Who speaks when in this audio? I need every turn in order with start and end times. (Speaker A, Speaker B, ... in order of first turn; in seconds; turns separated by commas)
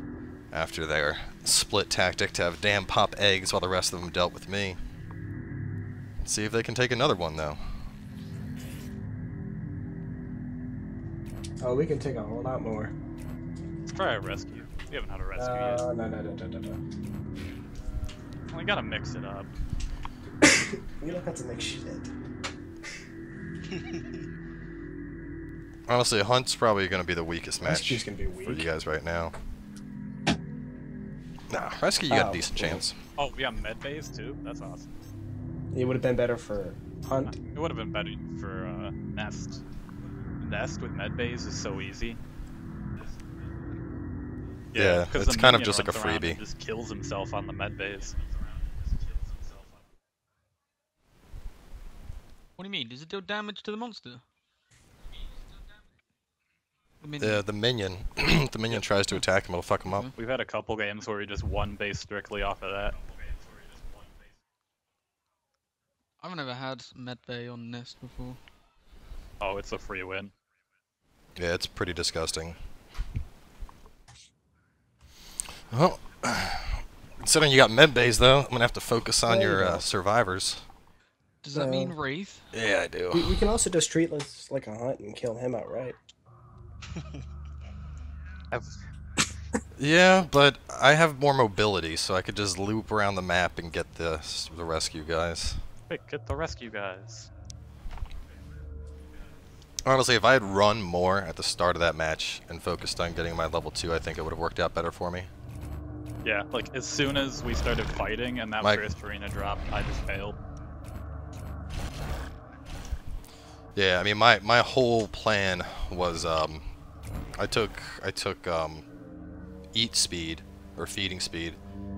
Speaker A: 0.5-4.8, Speaker A: 6.2-7.6, Speaker B: 11.6-12.9, Speaker C: 13.9-15.9, Speaker B: 15.3-16.8, Speaker C: 18.5-19.5, Speaker B: 20.4-22.1, Speaker A: 25.9-29.3, Speaker B: 27.6-28.7, Speaker A: 31.5-33.0, Speaker B: 32.1-32.9, Speaker C: 33.2-34.9, Speaker B: 35.7-37.4, Speaker C: 37.2-39.6, Speaker C: 40.4-42.2, Speaker C: 44.7-48.2, Speaker A: 44.8-46.4, Speaker D: 52.6-54.2, Speaker D: 57.0-57.4, Speaker A: 57.2-60.1, Speaker D: 59.9-60.1, Speaker C: 60.1-63.0, Speaker D: 66.2-68.4, Speaker C: 69.4-70.3, Speaker A: 71.4-72.5, Speaker A: 75.7-80.6, Speaker B: 79.2-79.8, Speaker D: 81.4-82.5, Speaker B: 81.5-82.0, Speaker A: 82.5-83.4, Speaker B: 83.1-86.0, Speaker C: 88.5-88.8, Speaker A: 89.8-95.6, Speaker C: 95.9-97.3, Speaker A: 99.8-105.3, Speaker C: 106.2-110.4, Speaker A: 113.7-116.7, Speaker A: 117.4-118.8, Speaker A: 119.7-121.6